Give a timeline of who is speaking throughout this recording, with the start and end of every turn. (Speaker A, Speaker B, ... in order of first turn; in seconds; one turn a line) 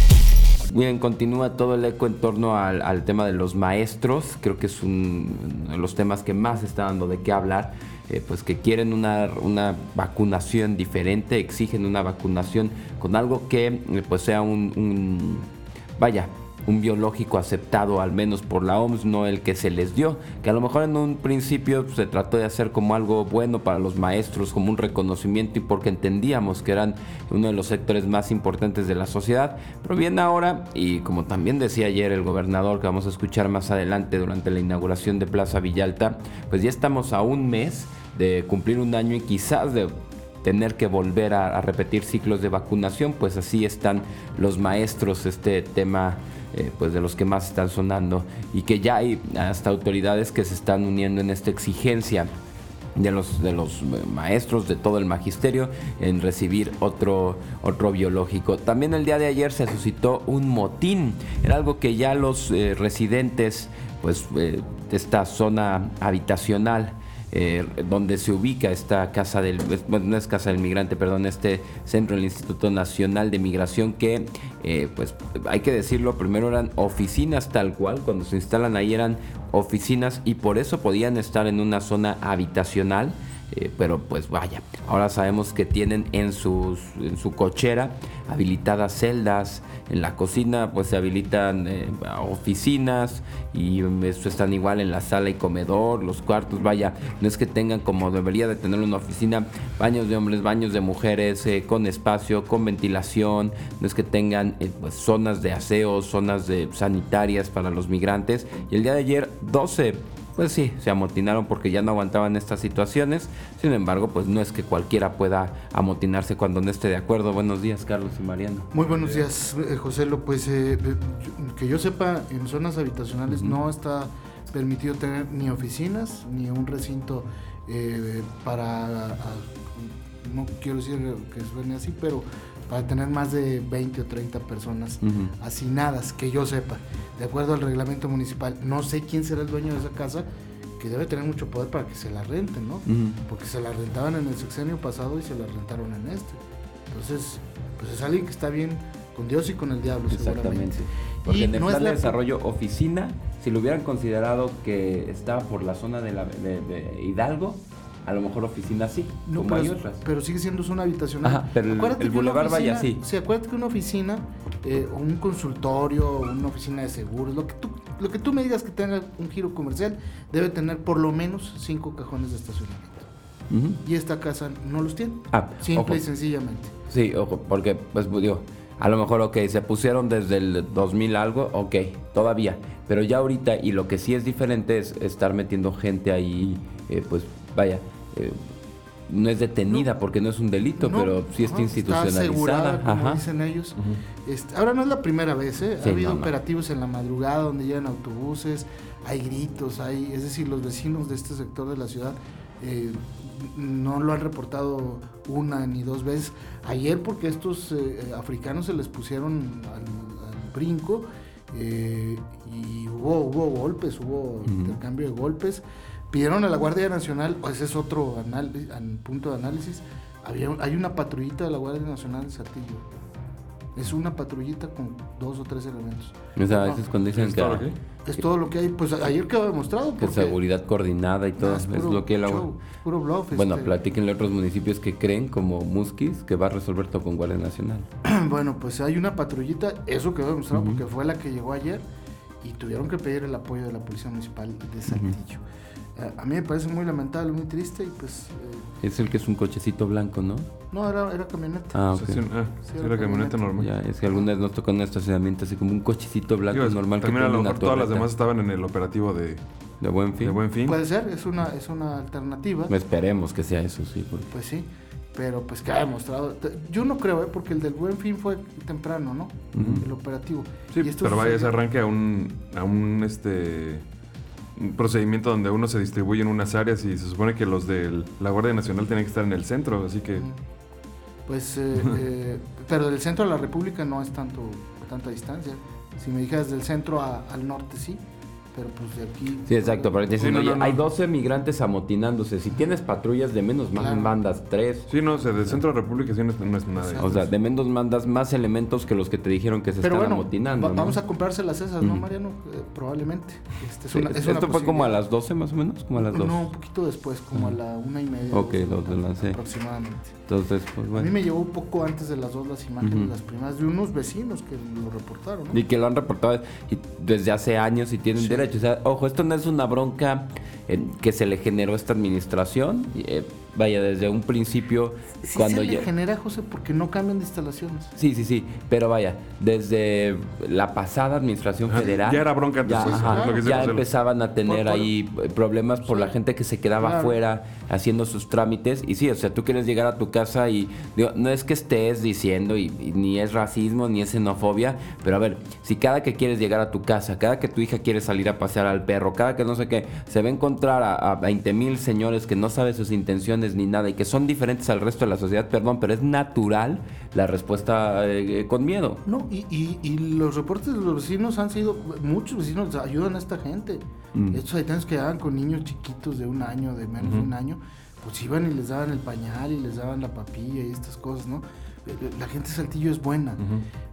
Speaker A: 0.7-52.3
Speaker A: 53.0-118.7
Speaker B: 118.7-140.3
Speaker C: 118.9-119.2
Speaker A: 123.3-123.5
Speaker A: 135.0-135.3
Speaker B: 140.8-152.2
Speaker A: 142.9-143.2
Speaker A: 150.1-160.0
Speaker B: 159.3-173.1
Speaker A: 161.2-163.0
Speaker A: 173.5-173.8
Speaker B: 173.8-176.7
Speaker A: 175.3-176.0
Speaker A: 176.9-188.4
Speaker A: 189.1-193.2
Speaker B: 190.8-222.9
Speaker A: 195.8-196.3
Speaker A: 214.4-214.8
Speaker B: 223.8-226.8
Speaker A: 226.4-227.7
Speaker C: 227.2-227.8
Speaker B: 228.1-230.4
Speaker A: 230.0-232.5
Speaker B: 231.4-233.8
Speaker A: 233.3-237.9
Speaker B: 238.0-241.8
Speaker A: 240.5-240.8
Speaker B: 242.4-245.4
Speaker A: 244.9-245.2
Speaker B: 246.0-248.7
Speaker A: 248.8-250.5
Speaker B: 250.7-251.8
Speaker A: 251.7-252.2
Speaker C: 251.9-253.7
Speaker B: 252.7-254.3
Speaker A: 253.6-258.1
Speaker C: 256.5-259.4
Speaker A: 259.8-260.4
Speaker C: 260.2-260.8
Speaker B: 260.7-262.7
Speaker A: 262.7-264.3
Speaker B: 264.3-271.5
Speaker A: 269.5-269.9
Speaker C: 269.6-269.8
Speaker C: 270.7-273.9
Speaker C: 274.6-280.3
Speaker B: 280.1-280.4
Speaker B: 281.3-289.9
Speaker A: 289.5-294.9
Speaker C: 290.1-290.9
Speaker B: 293.7-294.1
Speaker C: 294.9-297.2
Speaker B: 296.8-297.3
Speaker A: 297.0-301.0
Speaker B: 299.8-305.0
Speaker A: 303.9-306.5
Speaker B: 306.0-310.2
Speaker A: 308.3-309.4
Speaker A: 310.3-311.1
Speaker B: 310.9-315.6
Speaker A: 312.8-313.1
Speaker A: 315.5-325.9
Speaker B: 318.2-318.4
Speaker B: 325.2-327.9
Speaker A: 328.0-359.0
Speaker C: 331.7-333.9
Speaker B: 332.7-333.8
Speaker B: 334.5-334.9
Speaker B: 335.8-336.1
Speaker B: 336.8-337.2
Speaker B: 359.1-373.4
Speaker A: 364.1-364.4
Speaker C: 367.0-367.3
Speaker C: 373.4-373.6